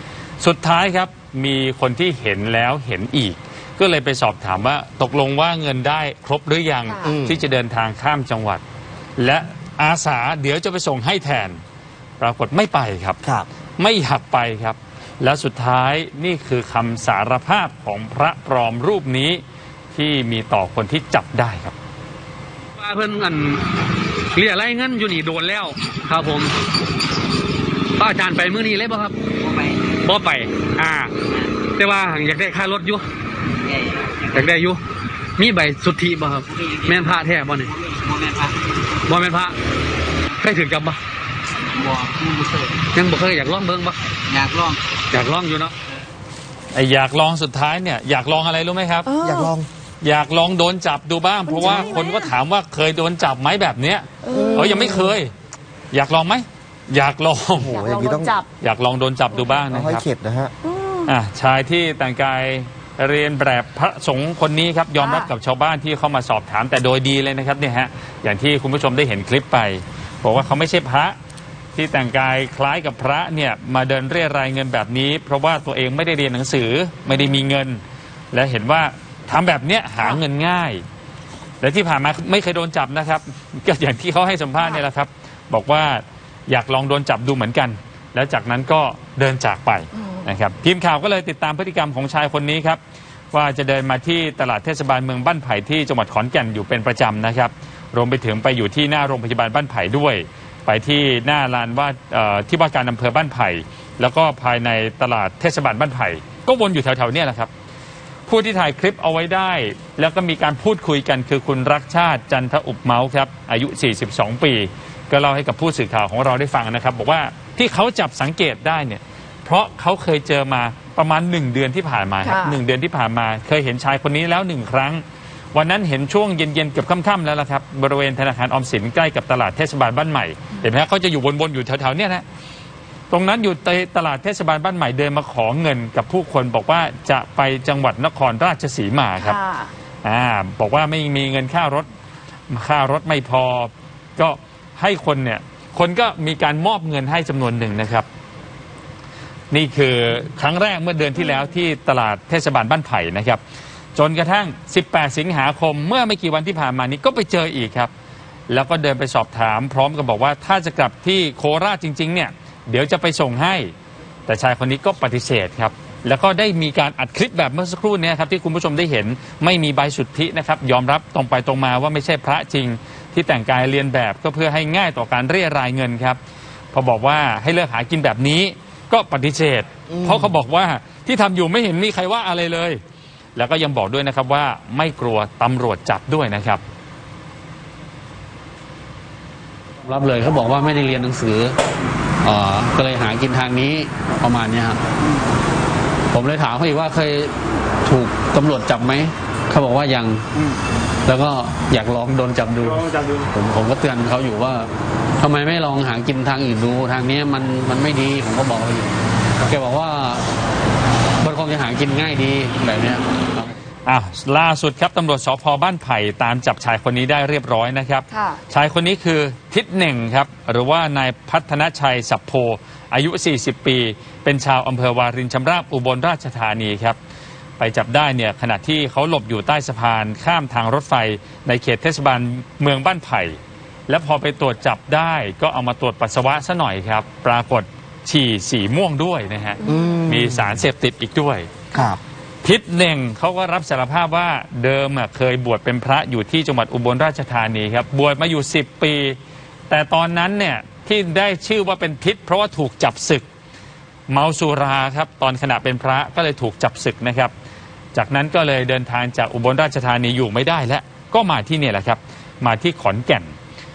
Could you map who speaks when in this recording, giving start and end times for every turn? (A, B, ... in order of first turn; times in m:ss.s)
0:00.4-0:08.6 A
0:06.9-0:07.1 B
0:07.0-0:07.4 C
0:09.2-0:11.6 A
0:12.2-0:13.2 A
0:13.8-0:21.7 A
0:22.8-0:23.6 D
0:24.3-0:26.5 D
0:28.0-0:29.2 D
0:29.4-0:29.8 E
0:30.0-0:31.2 D
0:31.7-0:33.0 D
0:33.7-0:34.1 E
0:34.2-0:34.8 D
0:35.4-0:38.2 D
0:36.6-0:37.0 E
0:38.0-0:38.5 E
0:39.1-0:39.5 D
0:40.3-0:41.0 D
0:41.8-0:42.7 E
0:42.9-0:44.0 D
0:44.3-0:44.8 E
0:45.1-0:45.7 D
0:46.7-0:49.1 A
0:49.0-0:49.5 B
0:49.2-0:49.7 C
0:50.0-0:55.3 A
0:51.5-0:52.3 B
0:51.6-0:52.0 C
0:54.2-0:54.9 B
0:54.3-0:55.1 C
0:55.9-0:57.8 A
0:57.6-0:58.3 C
0:57.7-0:58.5 B
0:58.6-1:00.0 A
0:59.7-1:00.5 C
1:00.6-1:01.1 B
1:01.0-1:11.2 A
1:05.0-1:05.3 B
1:11.7-1:17.8 A
1:18.3-1:20.8 A
1:21.6-1:32.8 A
1:30.0-1:30.3 B
1:33.3-1:47.5 A
1:48.3-2:12.2 A
2:02.2-2:02.6 B
2:13.1-2:19.4 A
2:19.2-2:19.7 B
2:20.0-2:21.9 A
2:22.5-2:28.1 A
2:29.5-2:33.4 A
2:33.9-2:37.9 A
2:38.5-2:43.7 A
2:44.3-2:56.2 A
2:56.7-3:02.8 A
2:59.9-3:00.3 C
3:03.3-3:06.6 A
3:09.8-3:11.6 D
3:12.2-3:14.8 D
3:16.1-3:20.2 D
3:21.0-3:30.3 D
3:31.2-3:33.5 D
3:33.8-3:47.0 A
3:38.1-3:38.4 B
3:47.6-3:53.4 A
3:53.9-4:01.6 A
3:59.6-4:00.0 B
3:59.6-4:00.6 C
4:01.7-4:02.0 C
4:02.4-4:09.2 A
4:09.7-4:13.3 A
4:14.1-4:17.3 A
4:17.9-4:23.3 A